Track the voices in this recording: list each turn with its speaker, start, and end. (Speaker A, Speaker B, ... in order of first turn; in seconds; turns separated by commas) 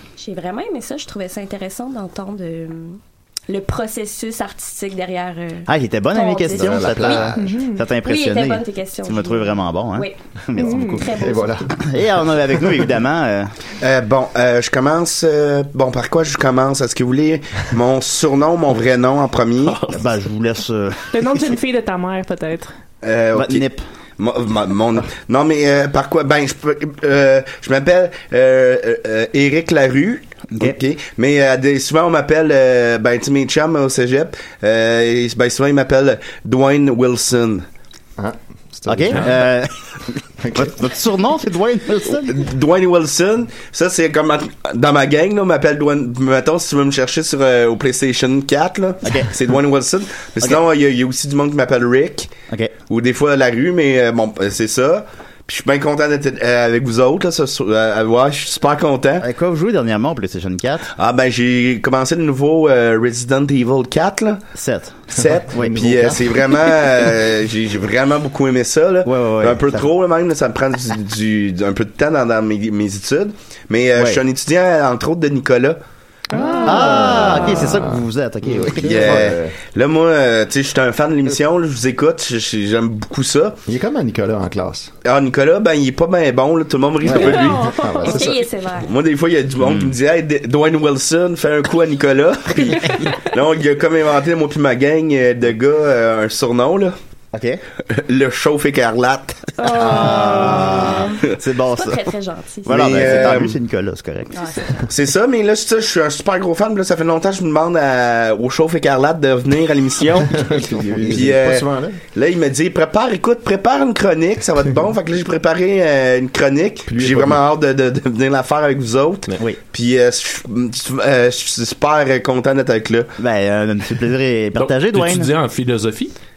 Speaker A: 0.2-7.3, Speaker B: 5.7-13.5, Speaker C: 6.5-7.6, Speaker D: 7.3-7.8, Speaker A: 8.0-11.5, Speaker D: 10.6-11.0, Speaker C: 11.1-12.9, Speaker E: 13.8-19.8, Speaker F: 19.6-20.0, Speaker B: 19.9-21.5, Speaker D: 21.1-22.7, Speaker E: 23.0-23.6, Speaker B: 23.3-23.8, Speaker E: 24.2-37.6, Speaker C: 38.2-39.5, Speaker B: 38.9-42.4, Speaker C: 40.4-40.8, Speaker E: 42.1-52.4, Speaker B: 49.0-49.3, Speaker E: 52.9-59.2, Speaker B: 59.2-60.9, Speaker E: 61.0-64.4, Speaker B: 64.5-65.0, Speaker E: 65.1-75.8, Speaker C: 65.2-66.4, Speaker B: 65.5-65.8, Speaker B: 69.0-69.9, Speaker D: 76.3-77.6, Speaker C: 76.3-79.5, Speaker B: 76.6-79.2, Speaker E: 78.8-83.6, Speaker C: 83.7-84.9, Speaker E: 85.0-96.9, Speaker C: 87.0-88.4, Speaker D: 87.1-88.2, Speaker A: 88.1-88.9, Speaker B: 89.6-89.9, Speaker B: 97.3-97.6, Speaker E: 97.9-99.5, Speaker D: 99.6-100.8, Speaker A: 99.6-103.0, Speaker B: 99.8-102.1, Speaker B: 102.7-104.5, Speaker E: 102.7-103.6, Speaker A: 104.3-104.8, Speaker E: 104.9-123.1, Speaker C: 110.3-112.0, Speaker C: 116.9-117.4, Speaker B: 123.2-125.3, Speaker F: 124.5-126.1